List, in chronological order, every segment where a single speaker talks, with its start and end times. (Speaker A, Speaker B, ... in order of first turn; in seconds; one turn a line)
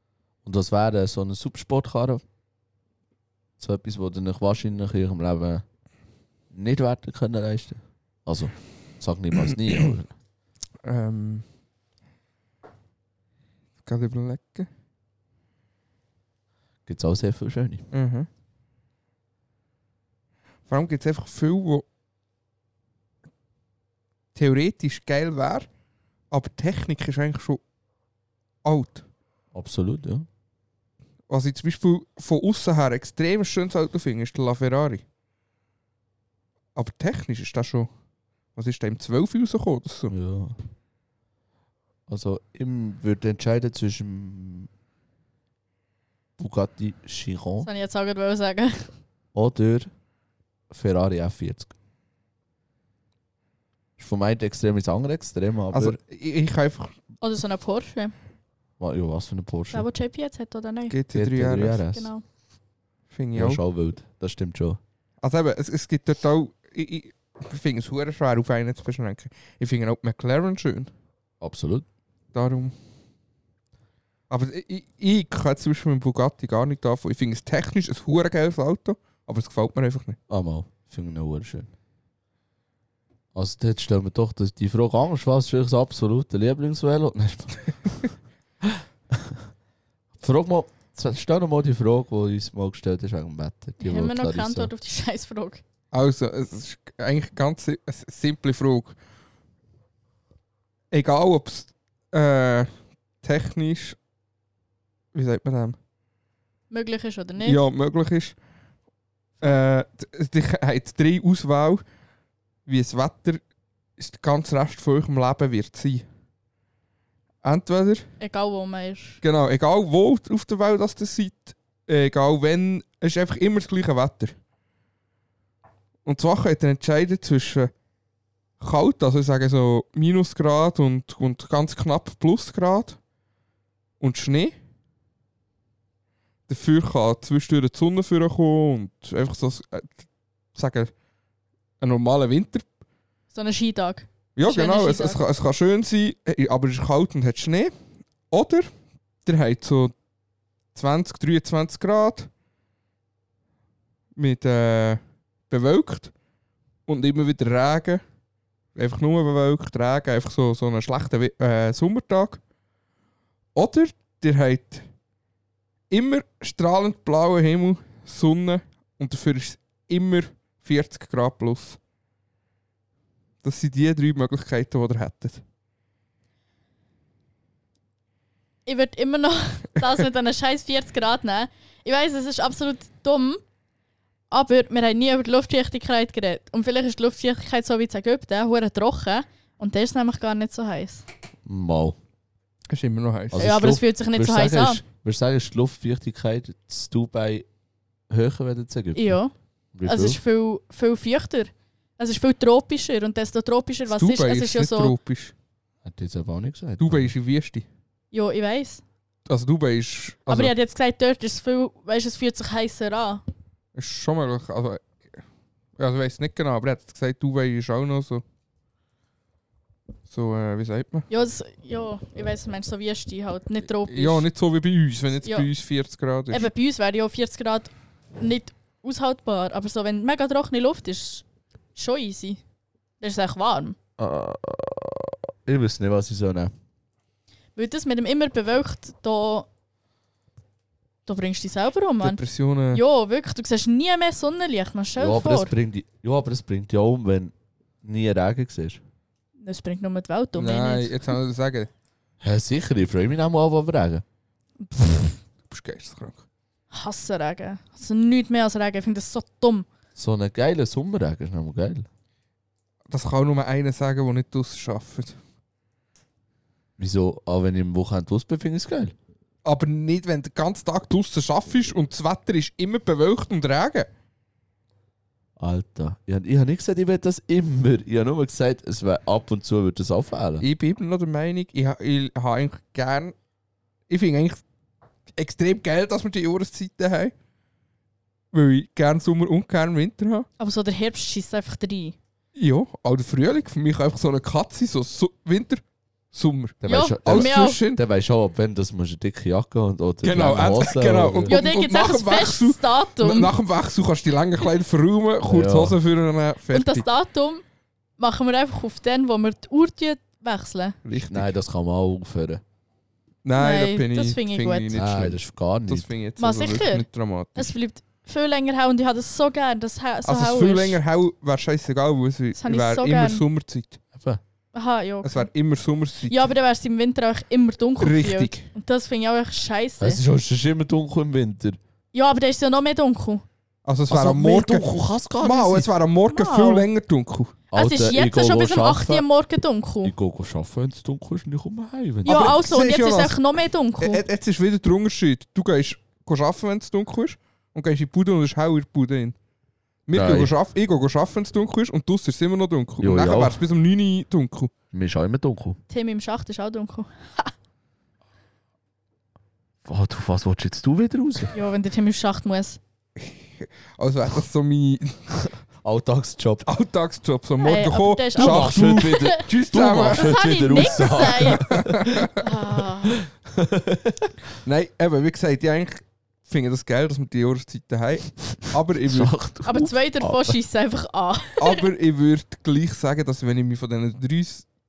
Speaker A: 0.4-2.2
Speaker A: 3.6-5.6
Speaker A: 6.5-10.1
Speaker B: 10.8-11.4
Speaker B: 13.8-14.7
Speaker A: 16.9-17.9
Speaker B: 17.9-18.3
Speaker B: 20.7-21.9
Speaker B: 24.4-25.7
Speaker B: 26.3-27.6
Speaker B: 28.6-29.1
Speaker A: 29.5-30.3
Speaker B: 31.3-35.0
Speaker B: 36.8-37.9
Speaker B: 38.6-40.1
Speaker A: 40.1-40.6
Speaker A: 42.1-44.7
Speaker A: 46.4-47.7
Speaker C: 47.6-48.9
Speaker A: 49.3-49.9
Speaker A: 50.7-51.7
Speaker A: 54.0-56.0
Speaker B: 55.7-57.0
Speaker C: 57.2-58.1
Speaker A: 58.8-59.9
Speaker C: 59.7-61.0
Speaker B: 60.9-61.8
Speaker A: 61.1-62.1
Speaker C: 61.9-62.2
Speaker B: 63.1-63.6
Speaker A: 63.4-64.8
Speaker B: 65.2-70.9
Speaker A: 71.4-71.9
Speaker B: 72.3-72.7
Speaker B: 74.3-80.2
Speaker A: 80.3-81.7
Speaker A: 83.3-88.1
Speaker A: 88.6-89.5
Speaker A: 90.2-94.7
Speaker C: 93.8-95.6
Speaker B: 95.9-99.0
Speaker B: 100.9-104.0
Speaker B: 105.1-105.8
Speaker C: 106.7-107.6
Speaker B: 107.4-108.3
Speaker B: 109.4-111.8
Speaker B: 112.7-113.4
Speaker B: 114.0-116.0
Speaker B: 117.4-118.1
Speaker C: 118.2-119.2
Speaker B: 119.2-124.3
Speaker B: 126.0-127.7
Speaker B: 128.6-133.0
Speaker B: 134.0-134.6
Speaker B: 136.5-139.9
Speaker B: 140.6-140.9
Speaker B: 141.8-142.7
Speaker C: 143.3-145.2
Speaker B: 144.4-147.7
Speaker B: 148.3-148.7
Speaker B: 149.2-149.9
Speaker B: 150.8-152.3
Speaker B: 154.2-156.1
Speaker B: 156.9-158.0
Speaker B: 158.8-162.4
Speaker B: 163.6-164.9
Speaker B: 165.9-171.8
Speaker B: 173.4-175.4
Speaker C: 178.7-183.4
Speaker C: 184.3-191.1
Speaker A: 191.5-192.0
Speaker B: 192.7-193.4
Speaker A: 193.3-197.5
Speaker C: 193.4-194.8
Speaker A: 198.1-199.2
Speaker C: 198.9-199.3
Speaker A: 199.7-200.2
Speaker C: 199.8-204.9
Speaker B: 203.9-205.3
Speaker A: 205.8-207.1
Speaker B: 206.8-207.7
Speaker C: 208.1-208.8
Speaker B: 209.3-210.5
Speaker C: 210.3-213.2
Speaker B: 213.8-215.0
Speaker B: 215.8-218.2
Speaker B: 220.1-221.1
Speaker C: 221.1-224.3
Speaker B: 223.9-226.5
Speaker C: 225.2-225.5
Speaker C: 226.3-232.4
Speaker C: 233.0-233.8
Speaker A: 234.0-236.5
Speaker C: 237.6-239.5
Speaker C: 241.1-242.2
Speaker B: 242.0-242.8
Speaker C: 242.7-245.5
Speaker A: 245.0-248.8
Speaker C: 249.4-251.0
Speaker B: 250.4-251.7
Speaker A: 252.2-254.0
Speaker C: 254.7-255.2
Speaker B: 255.5-256.2
Speaker C: 256.7-259.7
Speaker A: 260.0-261.9
Speaker B: 262.9-265.2
Speaker A: 266.8-268.9
Speaker B: 269.4-273.9
Speaker A: 275.4-280.5
Speaker B: 280.4-283.1
Speaker B: 283.9-284.4
Speaker B: 285.2-287.1
Speaker B: 288.3-290.3
Speaker C: 290.4-292.0
Speaker B: 292.4-295.6
Speaker B: 296.1-297.8
Speaker A: 296.6-301.4
Speaker C: 296.7-297.6
Speaker B: 300.0-306.9
Speaker C: 301.3-303.3
Speaker A: 305.3-305.8
Speaker C: 306.5-307.4
Speaker C: 308.0-310.8
Speaker B: 310.9-311.3
Speaker A: 311.0-312.4
Speaker B: 313.2-317.6
Speaker C: 313.4-314.8
Speaker A: 314.7-315.9
Speaker C: 316.2-320.8
Speaker B: 320.1-323.8
Speaker C: 322.4-323.2
Speaker A: 323.9-324.2
Speaker C: 324.5-325.3
Speaker B: 325.0-326.3
Speaker C: 326.1-330.0
Speaker B: 327.8-328.5
Speaker A: 329.8-331.6
Speaker C: 331.9-333.2
Speaker B: 333.7-337.4
Speaker A: 333.9-335.7
Speaker C: 336.1-336.7
Speaker A: 337.5-339.1
Speaker C: 337.5-339.9
Speaker A: 339.8-342.4
Speaker B: 342.1-343.2
Speaker C: 342.1-344.0
Speaker B: 343.8-349.1
Speaker B: 349.9-354.5
Speaker A: 349.9-350.3
Speaker A: 352.8-353.4
Speaker A: 354.7-355.6
Speaker C: 355.7-357.3
Speaker A: 359.6-361.3
Speaker C: 361.3-362.6
Speaker B: 363.0-365.1
Speaker A: 365.6-366.5
Speaker B: 366.4-370.2
Speaker C: 367.4-369.3
Speaker A: 368.2-374.3
Speaker C: 369.9-371.5
Speaker B: 370.8-372.2
Speaker C: 372.1-373.0
Speaker B: 374.4-379.1
Speaker A: 378.9-380.4
Speaker C: 379.5-381.6
Speaker B: 381.4-384.5